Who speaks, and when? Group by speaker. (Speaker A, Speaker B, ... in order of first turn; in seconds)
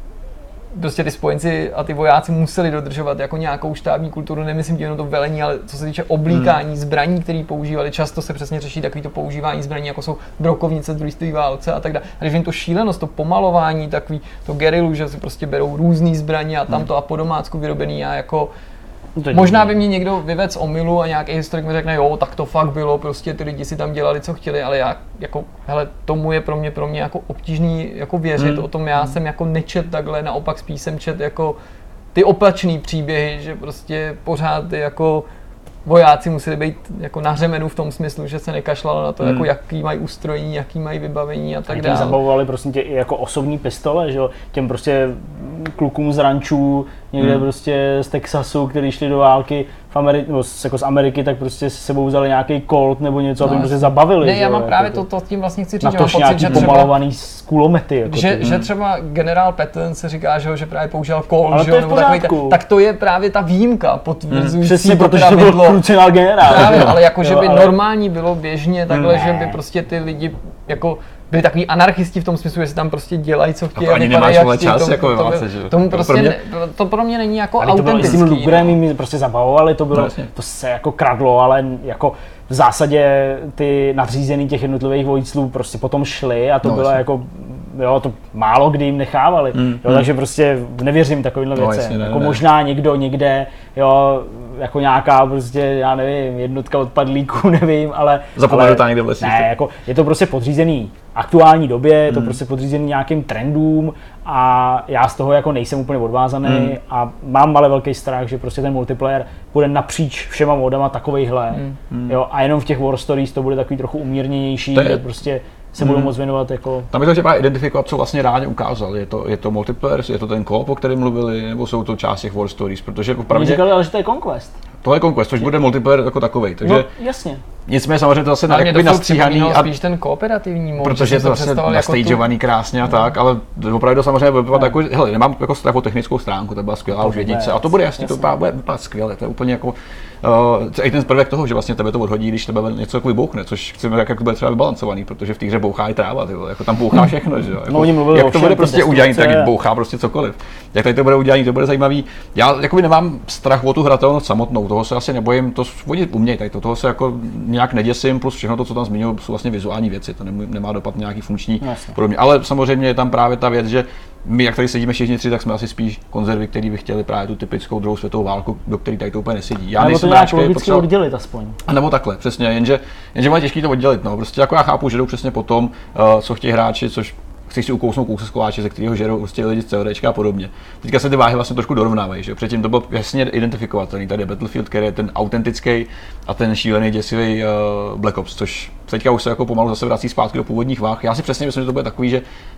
Speaker A: 0.7-18.5, 19.3-31.6, 32.1-35.3, 35.9-42.2, 53.4-57.0, 58.1-65.8, 66.4-78.8, 128.5-132.2
Speaker B: 6.3-6.6, 39.2-39.5, 56.5-56.8, 58.4-58.7, 66.6-66.9, 68.9-69.4, 73.8-76.4, 79.9-80.3, 86.6-87.0, 89.5-90.1, 91.5-92.4, 98.4-99.5, 102.1-102.4, 106.5-106.8, 111.9-112.2, 114.7-115.0, 115.8-116.1, 116.9-123.7, 124.8-126.9, 127.7-129.7, 130.8-170.8, 171.7-192.2
Speaker C: 19.2-19.8, 41.7-55.0, 55.8-58.5, 61.5-62.6, 64.6-67.8, 77.6-116.9, 123.3-124.6, 126.6-127.4, 137.0-138.3, 147.7-149.5, 161.6-162.0, 169.8-171.6